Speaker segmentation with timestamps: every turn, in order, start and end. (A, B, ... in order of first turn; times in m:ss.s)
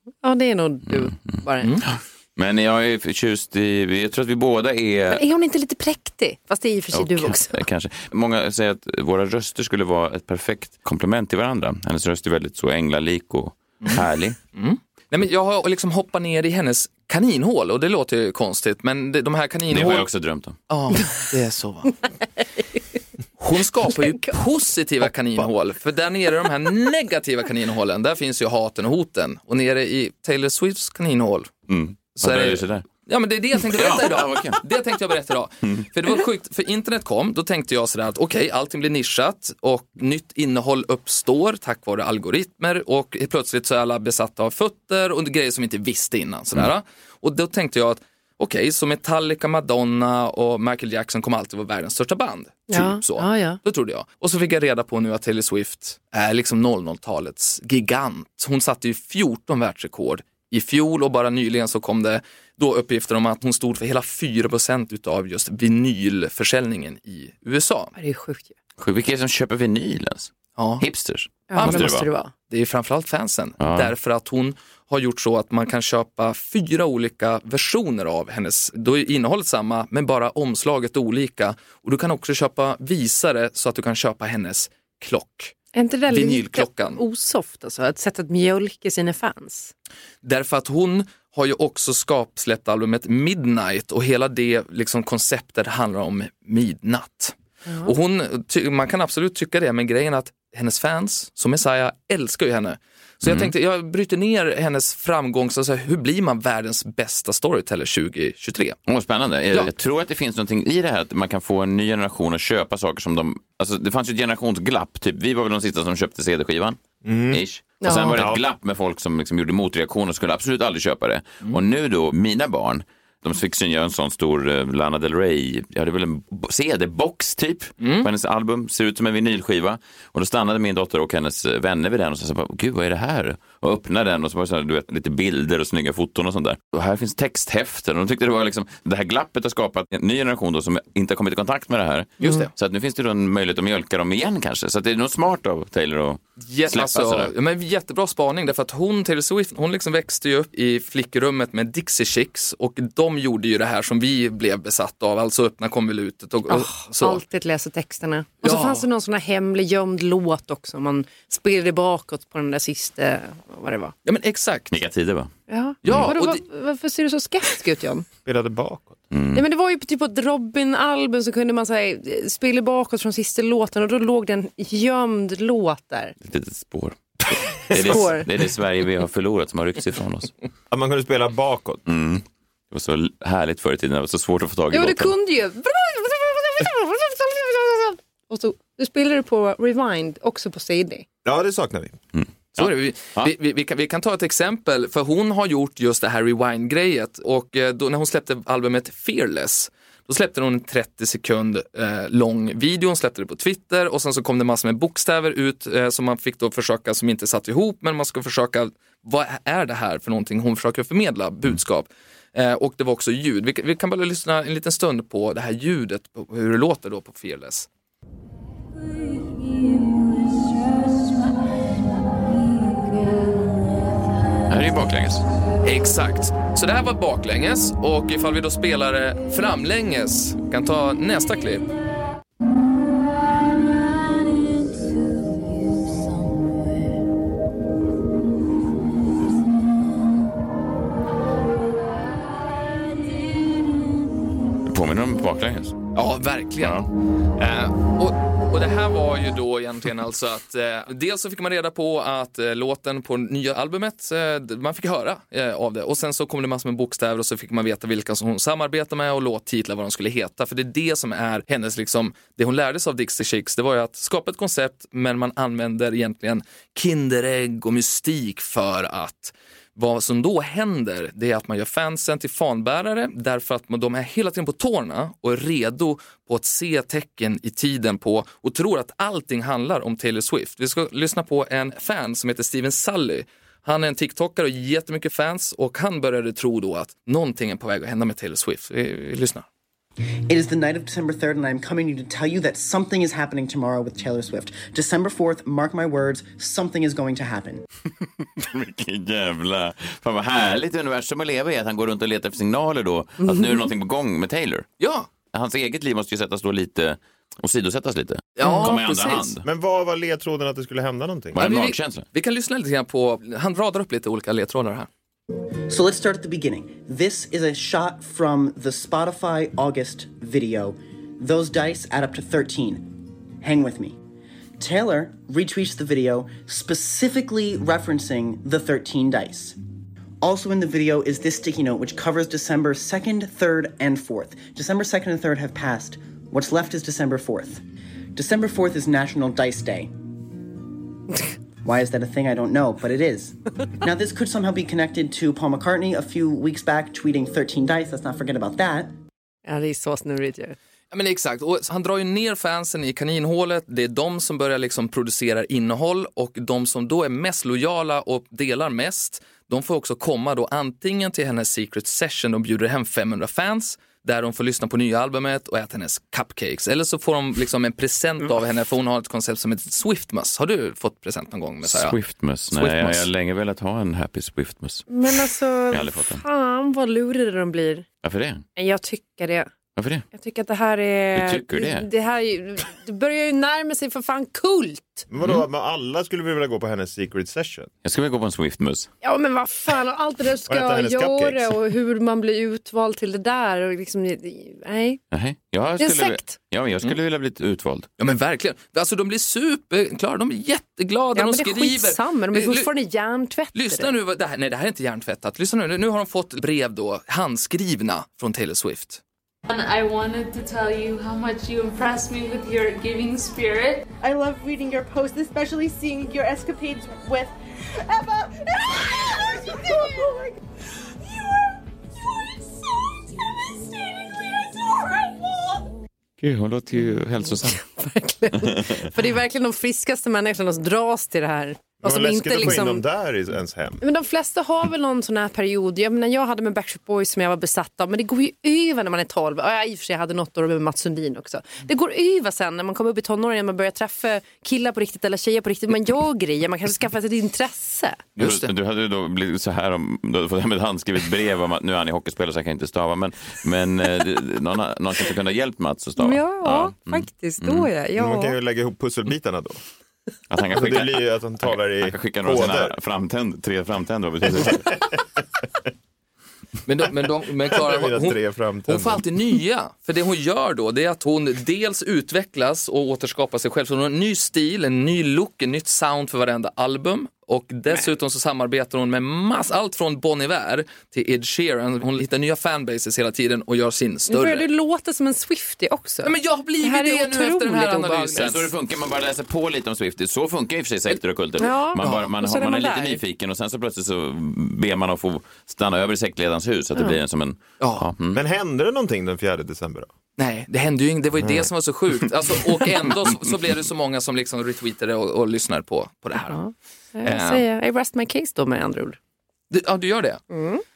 0:00.2-0:01.7 A
0:00.9-0:05.2 B
0:05.1-0:07.7 A
0:06.9-0:14.4 B
0:13.8-0:20.1 C
0:19.7-0:20.6 B
0:20.7-0:22.0 C
0:23.4-0:31.5 C
0:23.9-0:24.4 A
0:31.7-0:32.9 B
0:32.1-1:07.9 C
0:33.7-0:34.6 B
0:52.7-0:53.6 A
1:08.0-1:08.5 A
1:08.8-1:12.1 B
1:10.6-1:10.8 C
1:11.5-1:12.3 A
1:11.6-1:25.6 C
1:13.6-1:13.9 B
1:25.7-1:29.7 A
1:26.1-1:27.0 C
1:30.2-1:48.8 C
1:37.7-1:37.9 A
1:43.2-1:43.5 B
1:48.9-1:56.8 B
1:57.0-1:57.4 D
1:57.3-2:27.3 B
1:57.8-1:58.2 A
1:58.2-1:58.4 D
2:07.8-2:08.1 C
2:22.2-2:22.5 C
2:26.4-2:37.2 C
2:36.5-2:43.9 A
2:38.4-2:38.9 C
2:44.1-2:44.7 C
2:44.7-2:45.3 B
2:45.5-2:48.1 A
2:45.8-2:46.4 C
2:45.9-2:46.1 B
2:48.3-2:49.0 D
2:49.1-2:49.5 B
2:49.3-2:56.1 A
2:56.2-3:00.3 B
2:57.7-2:58.3 A
3:00.7-3:01.8 D
3:01.9-3:05.1 B
3:04.7-3:11.0 A
3:11.2-3:12.0 D
3:12.2-3:13.3 B
3:12.6-3:37.7 C
3:44.5-3:45.2 B
3:45.6-3:51.7 C
4:04.7-4:05.8 B
4:06.0-4:06.8 C
4:06.6-4:06.9 B
4:07.4-4:49.5 C
4:50.3-4:57.6 E
4:58.4-5:04.7 B
5:04.8-5:05.1 C
5:05.3-5:09.4 B
5:08.4-5:09.3 C
5:08.4-5:08.7 A
5:09.4-5:11.4 D
5:11.4-5:12.1 B
5:11.4-5:14.9 C
5:15.7-5:24.0 E
5:24.6-5:29.6 E
5:30.2-5:37.6 E
5:38.2-5:39.9 E
5:41.6-5:48.9 E
5:49.4-5:50.6 A
5:50.9-6:12.0 C
6:11.6-6:14.9 B
6:12.5-6:13.1 C
6:14.9-6:17.9 A
6:15.7-6:16.2 B
6:18.0-6:18.4 B
6:18.6-6:19.5 A
6:19.8-6:20.0 B
6:20.1-6:25.1 A
6:21.2-6:21.9 B
6:25.1-6:27.7 D
6:27.8-6:28.9 B
6:29.0-6:35.0 A
6:30.5-6:31.6 D
6:35.1-6:37.9 B
6:35.8-6:36.4 A
6:38.0-6:42.7 C
6:41.2-6:43.9 A
6:43.6-6:49.0 C
6:49.5-6:53.9 F
6:54.0-7:00.4 G
7:01.0-7:01.6 G
7:02.1-7:05.7 G
7:06.2-7:07.6 B
7:07.4-7:12.8 A
7:11.8-7:13.8 D
7:13.8-7:28.0 A
7:28.2-7:28.5 C
7:28.2-7:37.7 B
7:36.0-7:38.4 A
7:38.0-7:39.6 D
7:40.3-7:44.7 B
7:40.5-7:42.8 D
7:46.7-8:04.5 C
7:47.5-7:49.0 D
8:04.1-8:08.3 A
8:06.0-8:08.5 C
8:08.2-8:18.2 B
8:11.4-8:13.0 A
8:11.8-8:12.1 C
8:17.6-8:17.9 C
8:18.1-8:19.9 D
8:20.2-8:26.4 C
8:21.2-8:21.5 D
8:26.3-8:29.0 A
8:27.0-8:27.4 C
8:29.5-8:30.2 C
8:30.3-8:30.6 A